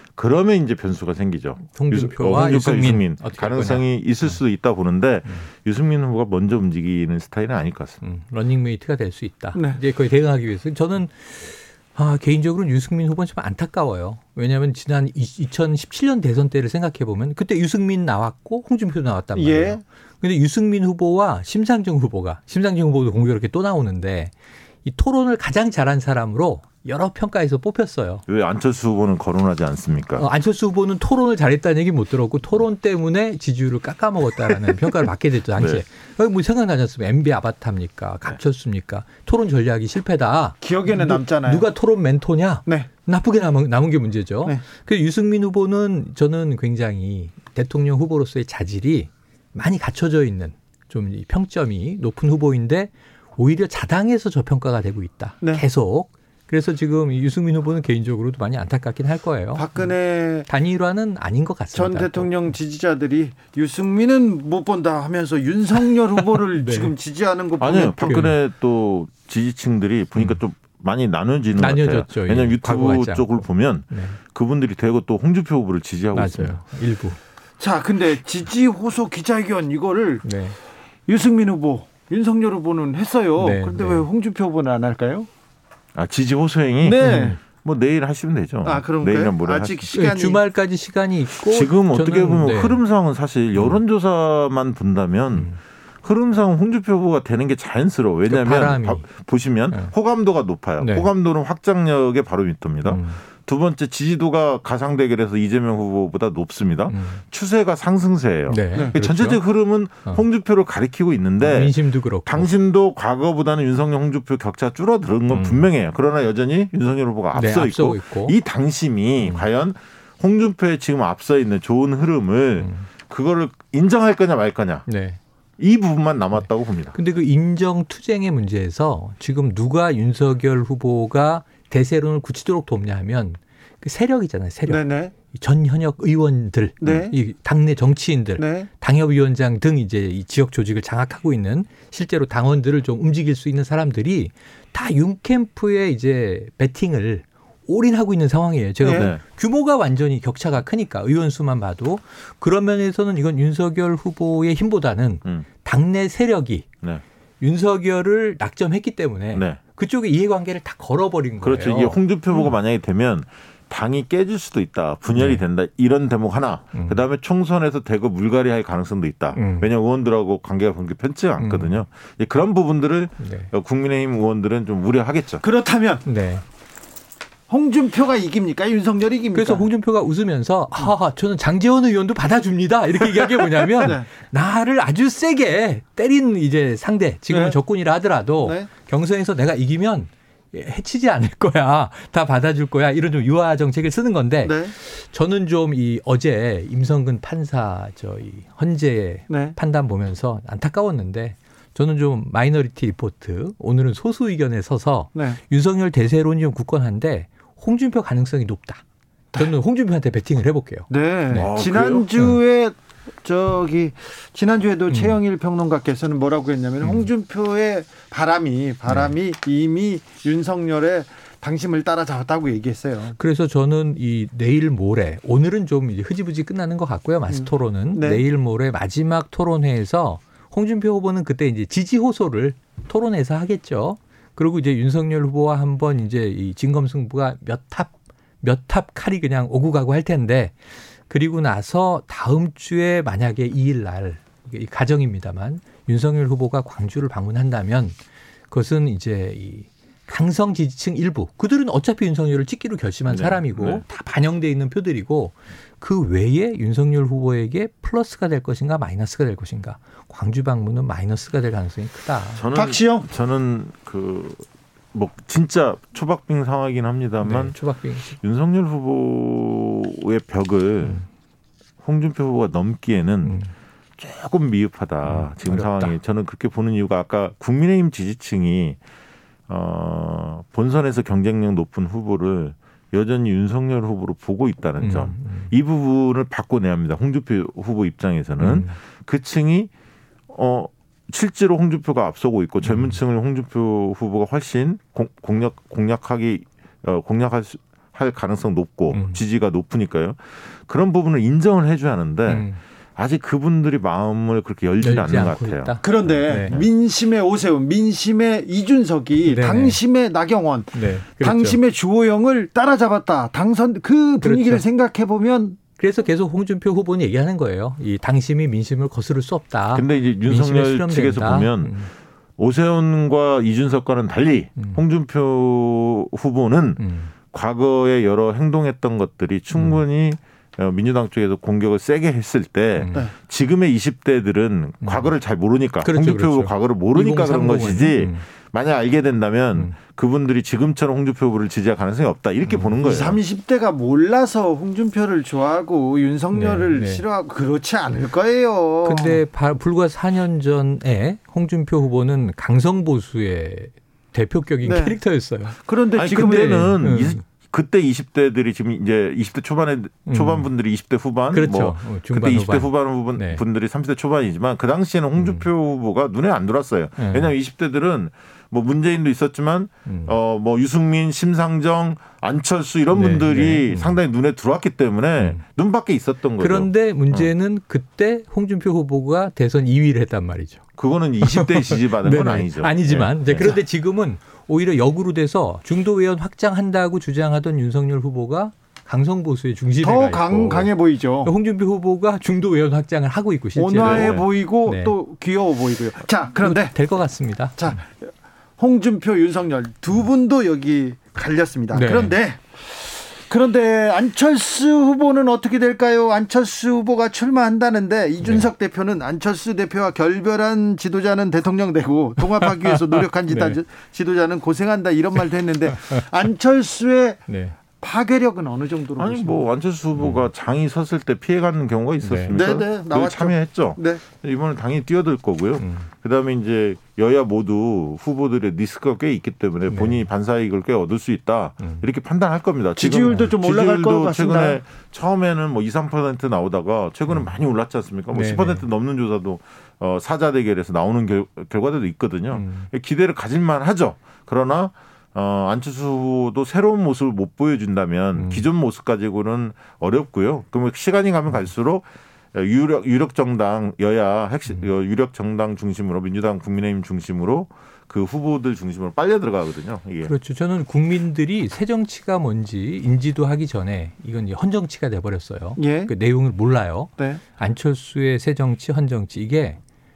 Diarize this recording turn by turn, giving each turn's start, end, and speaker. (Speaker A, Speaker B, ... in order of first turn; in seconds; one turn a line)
Speaker A: 0.1-8.0
Speaker B: 1.7-4.4
Speaker B: 8.0-24.3
Speaker C: 9.5-9.8
Speaker C: 19.4-19.8
Speaker B: 24.8-28.2
Speaker A: 28.3-30.2
Speaker B: 30.2-59.7
Speaker A: 35.5-35.8
Speaker C: 40.6-41.7
Speaker C: 59.5-60.5
Speaker B: 60.5-62.3
Speaker C: 61.7-68.2
Speaker B: 66.6-66.9
Speaker A: 67.6-76.6
Speaker B: 68.0-68.3
Speaker B: 71.6-74.2
Speaker B: 76.1-77.2
Speaker C: 77.6-80.2
Speaker B: 80.2-80.6
Speaker C: 81.1-85.3
Speaker B: 83.4-84.0
Speaker A: 85.9-89.9
Speaker C: 86.8-87.4
Speaker B: 87.0-87.4
Speaker C: 88.6-90.4
Speaker B: 89.9-92.8
Speaker A: 91.4-95.5
Speaker A: 96.0-124.8
Speaker B: 98.3-99.1
Speaker B: 100.8-101.1
Speaker B: 102.8-103.2
Speaker B: 106.9-107.2
Speaker B: 108.5-109.4
Speaker B: 111.4-112.5
Speaker B: 115.3-115.7
Speaker B: 117.3-118.3
Speaker B: 119.2-119.4
Speaker B: 122.6-122.9
Speaker B: 124.9-125.2
Speaker A: 125.6-127.0
Speaker B: 126.4-156.7
Speaker C: 134.7-135.1
Speaker C: 136.8-137.1
Speaker C: 138.4-138.7
Speaker C: 148.8-149.1
Speaker A: 148.9-149.2
Speaker B: 157.4-162.4
Speaker A: 159.3-159.6
Speaker A: 161.4-175.4
Speaker B: 165.1-165.4
Speaker B: 166.7-167.0
Speaker B: 169.3-169.7
Speaker B: 171.4-171.8
Speaker B: 173.2-173.5
Speaker C: 175.4-176.0
Speaker B: 176.1-176.4
Speaker C: 177.5-179.7
Speaker B: 179.3-208.8
Speaker C: 183.8-184.1
Speaker C: 187.3-187.6
Speaker C: 188.4-188.7
Speaker C: 194.4-194.7
Speaker C: 199.3-199.6
Speaker C: 205.1-205.4
Speaker B: 209.3-211.5
Speaker C: 210.9-223.2
Speaker A: 211.4-212.1
Speaker B: 214.9-215.2
Speaker B: 216.8-217.1
Speaker B: 223.2-240.6
Speaker C: 227.3-228.2
Speaker B: 241.1-248.0
Speaker B: 248.5-262.4
Speaker A: 253.1-253.8
Speaker A: 262.4-267.6
Speaker C: 262.5-263.1
Speaker B: 267.2-268.1
Speaker A: 268.2-271.0
Speaker A: 271.8-273.4
Speaker B: 273.2-273.5
Speaker A: 274.0-278.8
Speaker B: 275.0-275.9
Speaker A: 279.5-289.7
Speaker B: 284.8-285.5
Speaker B: 288.4-288.7
Speaker A: 290.3-306.7
Speaker B: 292.6-293.0
Speaker B: 298.9-299.2
Speaker B: 302.3-302.6
Speaker B: 304.8-306.6
Speaker C: 305.8-315.6
Speaker B: 309.2-309.8
Speaker B: 310.7-311.6
Speaker B: 314.2-314.6
Speaker B: 315.8-321.9
Speaker A: 319.7-321.7
Speaker A: 322.4-343.2
Speaker B: 326.8-327.1
Speaker B: 329.5-329.8
Speaker B: 332.8-333.1
Speaker B: 334.8-335.1
Speaker B: 335.8-338.2
Speaker B: 342.5-342.8
Speaker C: 342.8-349.2
Speaker B: 346.3-347.0
Speaker B: 348.8-355.6
Speaker C: 354.6-355.0
Speaker C: 355.6-356.7
Speaker A: 355.9-377.3
Speaker B: 356.2-357.2
Speaker B: 360.1-360.5
Speaker B: 361.3-363.4
Speaker B: 365.2-365.5
Speaker B: 367.0-367.3
Speaker B: 369.9-370.1
Speaker B: 372.9-374.0
Speaker B: 376.4-380.6
Speaker A: 380.8-383.6
Speaker B: 381.2-390.7
Speaker C: 389.8-391.3
Speaker B: 391.2-394.9
Speaker C: 393.6-396.7
Speaker A: 393.8-394.2
Speaker B: 396.4-397.7
Speaker C: 397.6-419.4
Speaker B: 401.7-402.1
Speaker B: 412.4-413.6
Speaker B: 415.8-416.0
Speaker B: 417.3-417.6
Speaker A: 419.0-460.1
Speaker B: 420.0-420.2
Speaker B: 422.0-422.4
Speaker C: 422.3-424.0
Speaker B: 425.6-425.9
Speaker B: 429.7-430.0
Speaker C: 432.8-434.6
Speaker B: 438.1-438.6
Speaker B: 442.3-442.7
Speaker B: 448.1-448.5
Speaker B: 460.0-469.6
Speaker C: 465.6-465.9